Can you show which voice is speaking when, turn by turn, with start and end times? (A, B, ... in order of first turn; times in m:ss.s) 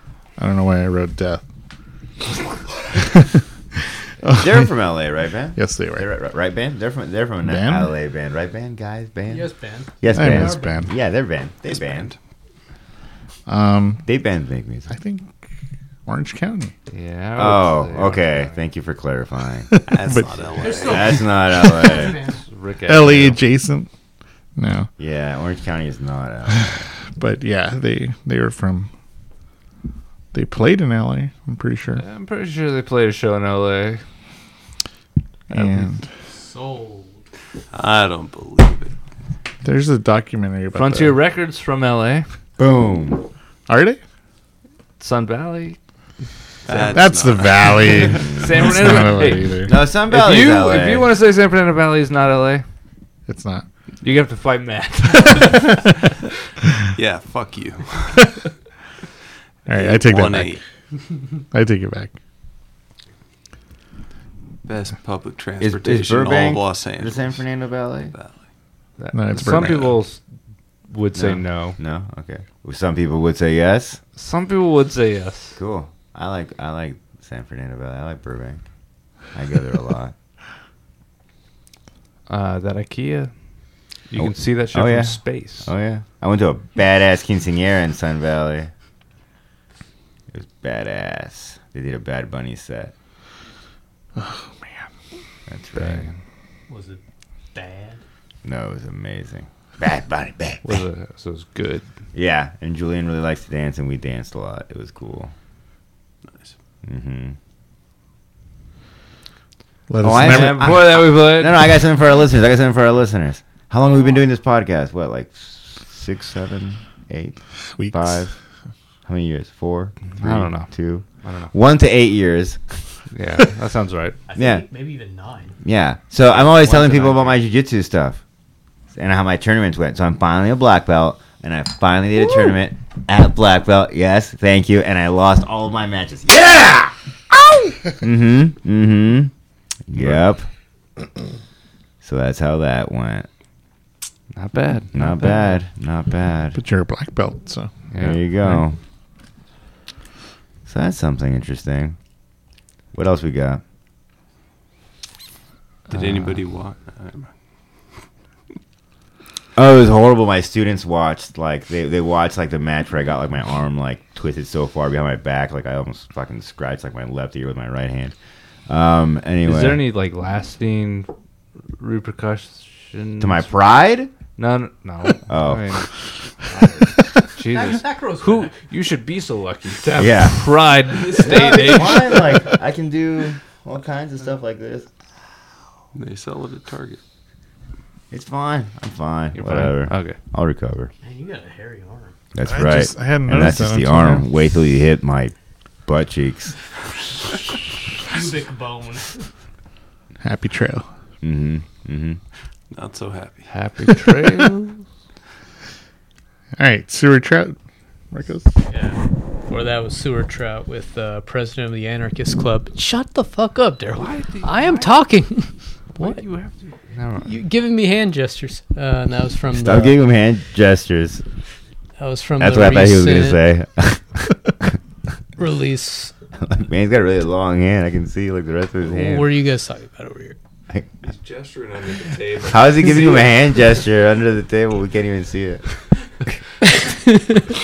0:00.4-0:01.4 A
0:02.9-0:03.4 A
0:04.2-0:04.7 A
0:04.3-0:12.1 B
0:05.6-0:06.1 A
0:07.4-0:07.9 A
0:09.3-0:10.9 C
0:10.1-0:10.9 A
0:11.7-0:12.2 D
0:13.5-0:14.0 A
0:14.0-0:14.9 B
0:14.9-0:15.4 A
0:16.0-0:16.7 A
0:16.9-0:18.6 E
0:17.4-0:22.2 B
0:19.7-0:20.3 A
0:19.9-0:21.1 D
0:20.6-0:22.4 C
0:22.4-0:23.4 E
0:22.9-0:23.9 A
0:24.6-0:24.9 A
0:25.0-0:26.9 B
0:26.5-0:28.9 A
0:30.3-0:32.0 A
0:31.9-0:34.0 E
0:35.5-0:36.1 A
0:35.5-0:35.9 E
0:36.3-0:37.2 C
0:37.7-0:38.9 D
0:39.6-0:41.2 A
0:40.7-0:42.3 E
0:42.6-0:43.3 B
0:43.7-0:44.0 A
0:45.0-0:45.8 E
0:46.6-0:48.2 D
0:46.7-0:49.8 A
0:48.3-0:48.7 B
0:48.3-0:52.6 E
0:49.6-0:51.1 B
0:53.2-0:53.6 A
0:54.0-0:55.8 E
0:57.0-0:58.4 D
0:59.6-1:00.6 A
0:59.7-1:00.6 D
1:01.5-1:02.2 A
1:04.6-1:07.6 D
1:05.6-1:08.1 B
1:08.1-1:08.5 D
1:09.0-1:10.3 E
1:09.1-1:10.0 A
1:10.9-1:11.8 E
1:11.1-1:14.0 B
1:14.1-1:15.6 E
1:15.6-1:18.7 B
1:19.2-1:20.1 B
1:22.3-1:25.7 E
1:24.2-1:28.7 B
1:30.3-1:32.9 B
1:34.2-1:34.9 A
1:35.5-1:36.1 B
1:35.7-1:36.2 E
1:36.7-1:37.0 C
1:37.5-1:38.0 C
1:38.4-1:40.8 B
1:40.6-1:41.9 E
1:42.1-1:45.3 B
1:46.2-1:46.6 D
1:46.8-1:47.4 B
1:49.9-1:51.0 A
1:50.0-1:58.3 B
1:50.2-1:51.6 E
1:57.7-1:58.3 A
1:59.0-2:02.9 B
2:00.1-2:01.5 E
2:03.1-2:04.2 E
2:04.3-2:05.6 C
2:04.4-2:04.7 B
2:05.6-2:08.2 B
2:06.6-2:07.4 E
2:08.9-2:16.9 B
2:18.0-2:19.3 B
2:19.9-2:20.5 B
2:22.0-2:23.3 B
2:24.3-2:25.6 E
2:24.9-2:26.6 B
2:26.5-2:27.8 A
2:27.9-2:28.2 E
2:28.0-2:28.8 B
2:30.6-2:32.0 B
2:32.9-2:33.6 B
2:35.9-2:38.0 D
2:35.9-2:36.4 E
2:39.6-2:49.8 B
2:49.4-2:51.1 E
2:51.7-3:02.1 E
2:53.2-2:54.1 B
2:55.2-2:56.0 B
2:57.5-2:58.6 C
3:00.0-3:00.6 B
3:01.0-3:02.5 C
3:01.2-3:04.9 B
3:05.9-3:07.0 D
3:08.1-3:10.9 B
3:09.3-3:10.2 E
3:11.0-3:12.1 C
3:12.3-3:16.6 B
3:12.4-3:14.3 A
3:18.1-3:19.3 C
3:20.2-3:20.9 A
3:21.2-3:22.2 B
3:22.7-3:23.5 D
3:23.5-3:24.9 E
3:26.6-3:27.6 A
3:28.1-3:28.5 A
3:28.7-3:36.3 C
3:33.9-3:35.1 E
3:36.0-3:37.3 E
3:37.2-3:40.0 C
3:39.5-3:41.2 B
3:42.0-3:43.4 C
3:42.4-3:44.8 B
3:45.4-3:46.1 C
3:46.4-3:49.2 B
3:48.9-3:50.4 C
3:50.7-3:50.9 B
3:51.0-3:52.7 D
3:52.5-3:56.4 B